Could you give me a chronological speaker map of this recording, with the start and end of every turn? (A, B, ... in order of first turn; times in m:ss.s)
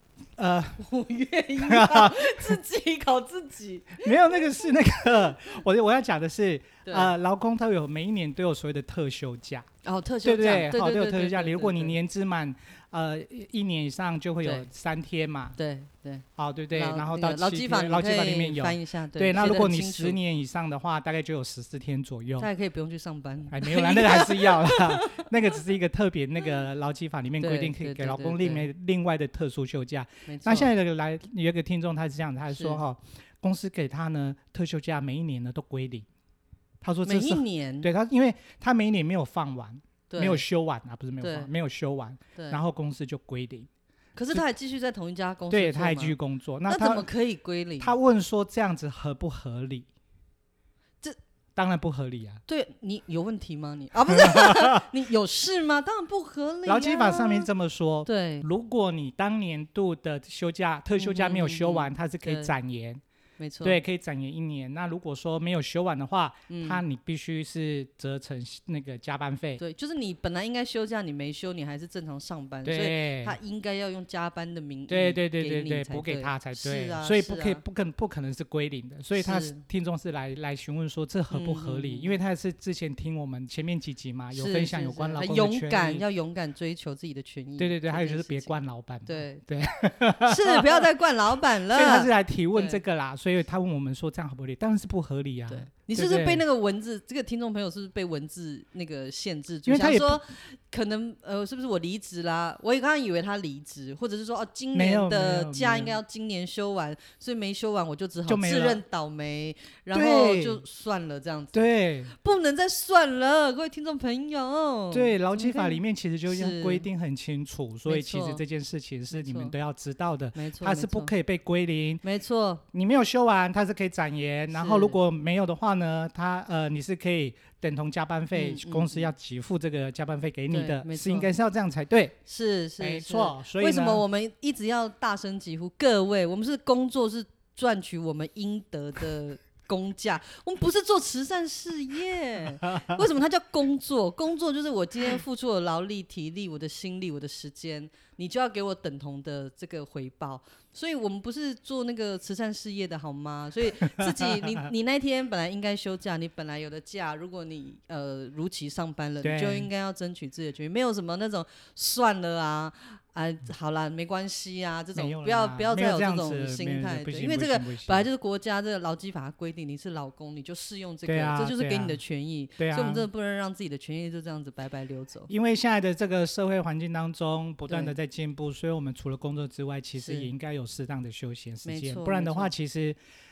0:00.4-0:00.8 A
0:00.8-0:04.4 B
0:01.6-0:02.6 A
0:04.0-0:09.7 A
0:06.8-0:07.1 B
0:09.8-0:12.0 B
0:10.2-0:15.6 A
0:14.4-0:14.7 B
0:15.6-0:20.2 B
0:16.4-0:22.5 A
0:22.4-0:25.3 B
0:23.5-0:36.1 A
0:27.4-0:28.7 B
0:30.2-0:30.7 B
0:32.5-0:32.8 B
0:36.8-0:43.7 A
0:37.0-0:37.9 B
0:40.1-0:40.4 B
0:41.2-0:41.5 B
0:44.2-0:46.2 B
0:45.5-0:47.1 A
0:46.7-0:48.0 B
0:47.8-0:49.9 A
0:51.6-0:52.4 A
0:52.5-0:57.5 B
0:56.6-1:03.0 A
0:58.0-0:58.5 B
1:00.9-1:02.5 B
1:03.4-1:03.8 B
1:03.6-1:09.6 A
1:06.5-1:06.8 B
1:09.6-1:17.6 B
1:12.6-1:13.3 A
1:14.9-1:26.0 A
1:19.2-1:19.6 B
1:21.3-1:22.2 B
1:24.3-1:29.4 B
1:27.6-1:30.7 A
1:30.2-1:32.8 B
1:31.7-1:36.4 A
1:35.5-1:56.9 B
1:39.6-1:40.2 A
1:44.7-1:46.0 A
1:48.3-1:48.8 A
1:49.9-1:50.6 A
1:51.5-1:52.1 A
1:54.9-2:02.0 A
1:57.9-1:58.4 B
1:59.1-1:59.5 B
2:00.3-2:01.1 B
2:02.0-2:02.6 B
2:02.7-2:12.1 A
2:04.5-2:05.0 B
2:08.3-2:09.1 B
2:10.5-2:11.3 B
2:12.2-2:55.3 B
2:12.8-2:14.0 A
2:39.2-2:39.7 A
2:44.9-2:48.0 A
2:51.0-2:52.0 A
2:52.6-2:53.1 A
2:55.3-3:03.0 A
2:57.7-2:57.9 B
3:00.0-3:00.3 B
3:01.6-3:02.5 B